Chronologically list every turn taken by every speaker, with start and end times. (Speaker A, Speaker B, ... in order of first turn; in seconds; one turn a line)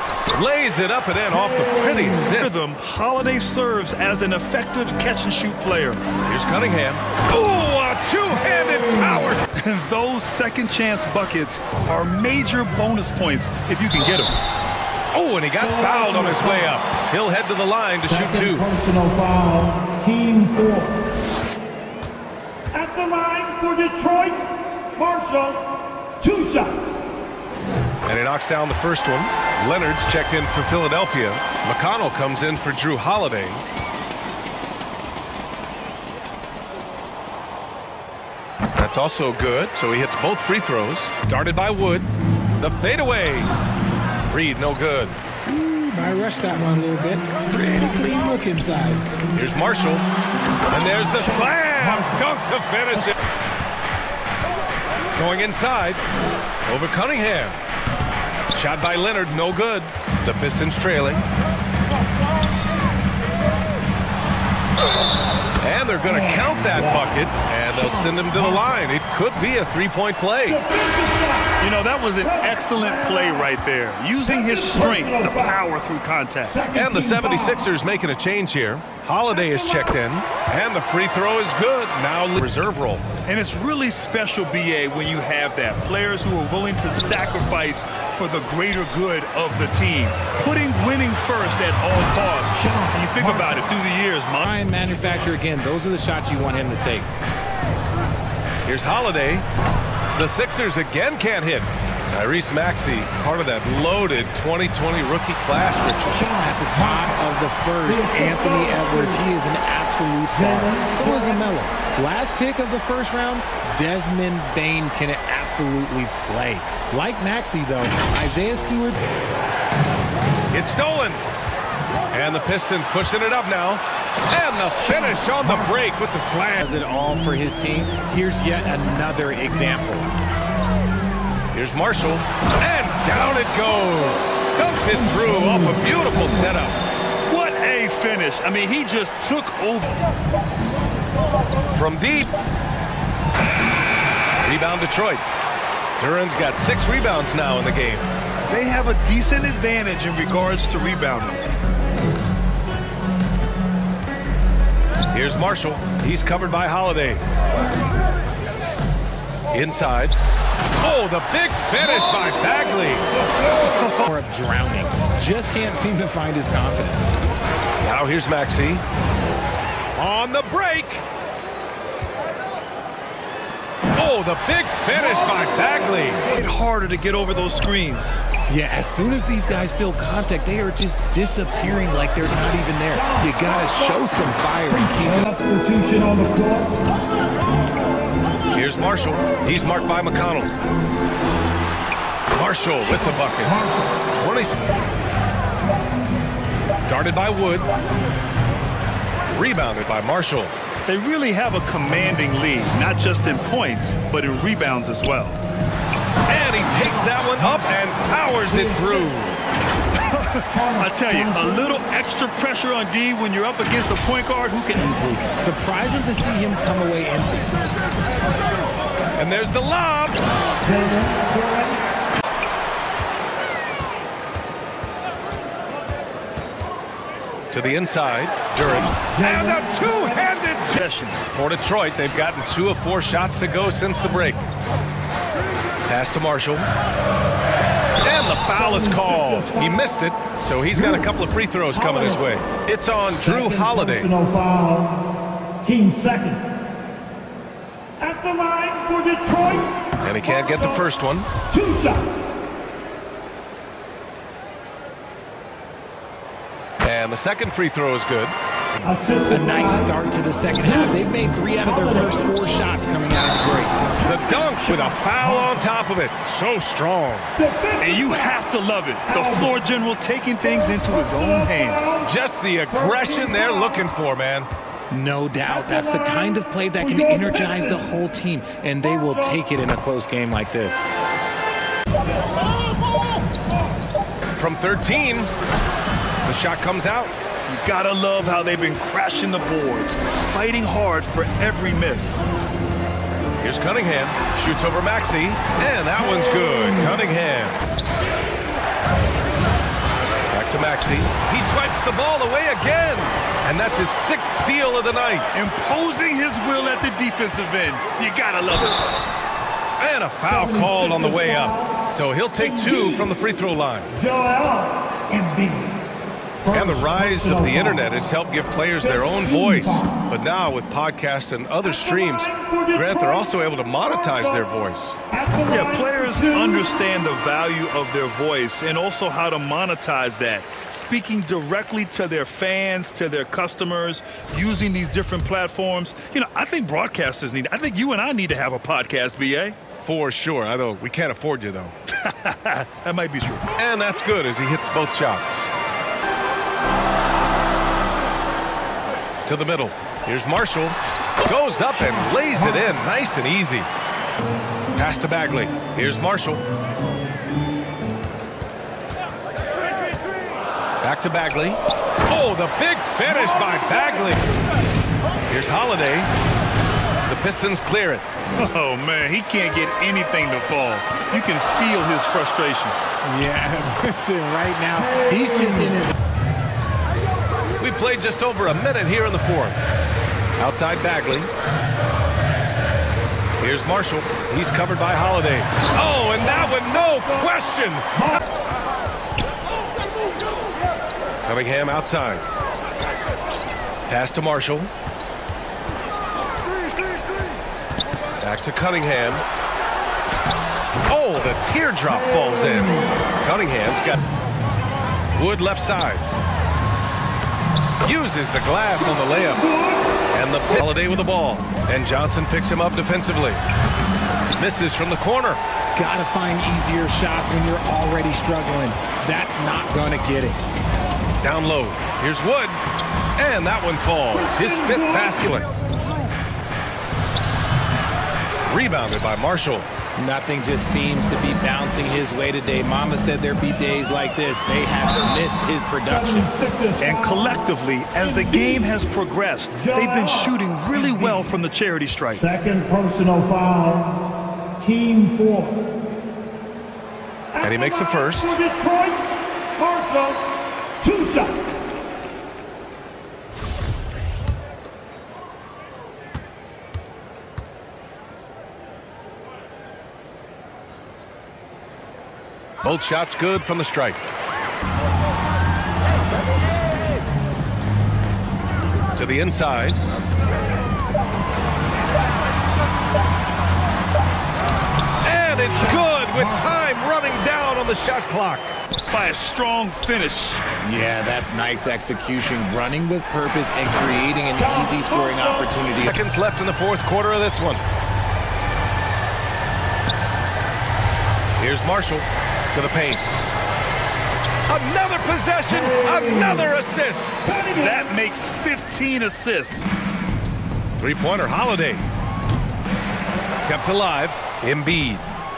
Speaker A: 0.3-2.5
Speaker B: 2.3-6.0
Speaker A: 6.2-9.5
Speaker B: 9.6-14.3
Speaker A: 15.1-18.7
Speaker C: 18.8-21.0
Speaker C: 22.7-25.6
Speaker C: 26.2-27.0
Speaker A: 28.1-33.6
Speaker A: 38.8-42.1
Speaker A: 42.6-43.5
Speaker A: 44.3-45.2
Speaker D: 45.5-49.0
Speaker A: 49.3-50.1
Speaker A: 50.7-53.2
Speaker A: 55.1-56.0
Speaker A: 56.7-57.6
Speaker A: 58.5-61.3
Speaker A: 65.6-70.7
Speaker C: 70.8-71.5
Speaker B: 71.5-76.7
Speaker A: 76.7-83.1
Speaker B: 83.2-94.5
Speaker D: 94.4-97.1
Speaker A: 98.7-99.5
Speaker A: 100.2-106.3
Speaker D: 106.4-119.0
Speaker A: 120.5-121.2
Speaker A: 122.1-126.7
Speaker D: 126.6-130.1
Speaker A: 131.5-136.8
Speaker B: 137.3-140.0
Speaker A: 141.7-142.3
Speaker A: 144.4-145.2
Speaker A: 146.0-148.1
Speaker B: 148.5-151.4
Speaker A: 155.1-157.2
Speaker A: 159.5-160.2
Speaker A: 160.8-163.1
Speaker D: 163.6-167.1
Speaker A: 167.8-168.8
Speaker A: 170.0-171.1
Speaker A: 173.9-176.3
Speaker B: 176.3-178.2
Speaker D: 178.5-185.4
Speaker C: 185.3-186.7
Speaker A: 188.5-190.5
Speaker A: 192.3-193.6
Speaker A: 194.1-194.6
Speaker A: 196.9-197.7
Speaker A: 199.3-200.5
Speaker B: 200.8-205.4
Speaker A: 206.3-209.4
Speaker B: 210.0-215.0
Speaker D: 214.7-217.5
Speaker A: 219.2-220.2
Speaker C: 220.7-221.8
Speaker A: 227.5-234.4
Speaker B: 230.7-231.2
Speaker A: 235.9-236.7
Speaker A: 238.0-244.1
Speaker C: 244.2-245.0
Speaker C: 245.6-246.4
Speaker C: 248.0-249.8
Speaker A: 250.0-251.3
Speaker C: 251.5-252.2
Speaker A: 256.8-258.9
Speaker C: 258.9-259.4
Speaker D: 259.3-263.9
Speaker A: 264.1-267.3
Speaker B: 267.8-272.0
Speaker A: 272.0-274.5
Speaker D: 274.9-280.9
Speaker A: 284.4-285.3
Speaker A: 286.2-287.1
Speaker B: 287.5-292.2
Speaker A: 293.4-297.6
Speaker A: 300.3-305.2
Speaker B: 305.3-308.8
Speaker A: 309.8-313.9
Speaker C: 314.0-315.7
Speaker A: 316.5-325.0
Speaker B: 325.4-339.6
Speaker A: 339.8-341.7
Speaker B: 341.9-343.4
Speaker A: 343.6-345.5
Speaker A: 349.2-353.7
Speaker A: 354.8-356.4
Speaker A: 360.8-364.2
Speaker A: 365.3-366.1
Speaker A: 367.1-368.0
Speaker B: 368.4-372.8
Speaker D: 373.1-375.9
Speaker A: 377.6-379.6
Speaker A: 380.4-381.3
Speaker A: 383.4-388.1
Speaker A: 391.2-392.2
Speaker A: 393.9-394.7
Speaker A: 398.2-399.2
Speaker A: 400.9-404.0
Speaker A: 405.1-406.1
Speaker A: 407.8-409.5
Speaker A: 410.1-413.4
Speaker A: 414.4-415.4
Speaker D: 415.8-420.4
Speaker A: 421.2-422.6
Speaker A: 423.2-425.5
Speaker A: 428.5-429.7
Speaker D: 430.0-436.3
Speaker C: 436.3-436.8
Speaker B: 436.8-442.4
Speaker C: 442.4-444.0
Speaker C: 444.6-445.6
Speaker A: 447.4-448.4
Speaker C: 448.5-449.0
Speaker C: 449.6-450.2
Speaker C: 450.8-451.5
Speaker A: 462.6-464.0
Speaker A: 468.9-469.8
Speaker A: 475.0-478.5
Speaker B: 478.9-480.4
Speaker D: 480.6-486.0
Speaker A: 485.9-487.6
Speaker A: 491.4-493.0
Speaker A: 494.5-497.3
Speaker B: 497.4-499.7
Speaker A: 500.8-501.9
Speaker A: 503.4-505.1